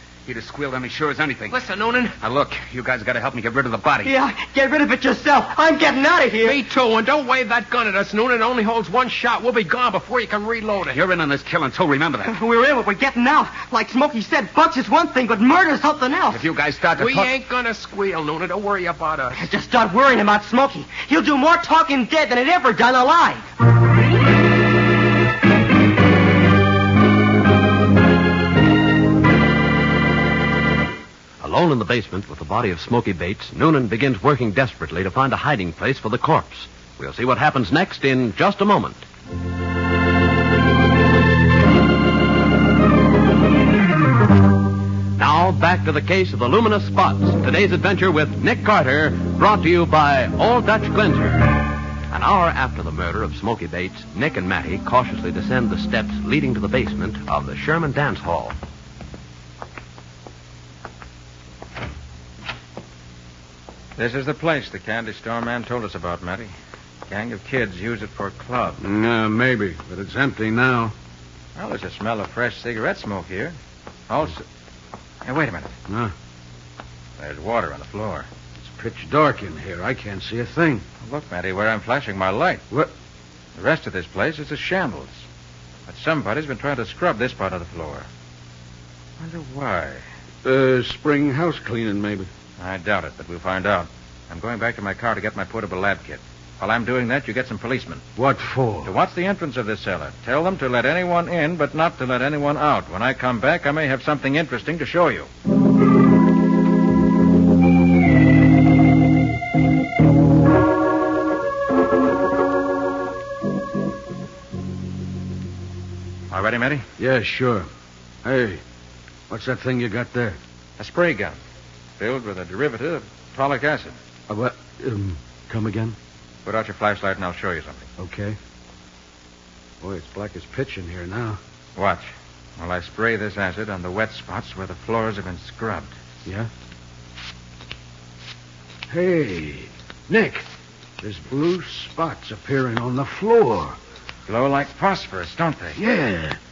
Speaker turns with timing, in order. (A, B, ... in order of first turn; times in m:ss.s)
0:00.3-0:01.6 A
0:01.5-0:02.2 B
0:02.2-0:04.2 A
0:04.0-0:06.6 C
0:06.4-0:11.0 B
0:10.9-0:12.3 A
0:12.2-0:16.4 C
0:16.3-0:17.3 A
0:17.0-0:19.5 B
0:19.4-0:23.5 C
0:31.4-0:39.0 D
0:45.2-0:58.6 D
1:04.0-1:06.5 E
1:07.1-1:08.8 E
1:08.8-1:10.9 F
1:11.6-1:13.6 E
1:14.1-1:14.4 E
1:15.2-1:15.7 E
1:15.9-1:16.1 F
1:17.2-1:18.3 E
1:18.6-1:20.8 F
1:21.0-1:22.6 E
1:23.6-1:25.2 E
1:25.9-1:28.1 E
1:29.2-1:30.0 E
1:30.4-1:32.3 F
1:32.6-1:38.0 E
1:38.2-1:38.9 F
1:38.8-1:45.3 E
1:56.3-1:56.9 E
1:57.0-1:57.7 F
1:58.2-1:58.6 F
1:59.3-2:00.4 F
2:00.8-2:01.4 E
2:02.0-2:04.0 E
2:04.3-2:06.0 F
2:06.4-2:07.9 E
2:08.0-2:08.4 F
2:09.8-2:11.4 F
2:11.8-2:15.9 E
2:16.2-2:16.5 F
2:18.9-2:20.4 F
2:21.0-2:23.8 F
2:24.3-2:25.8 E
2:25.8-2:26.4 F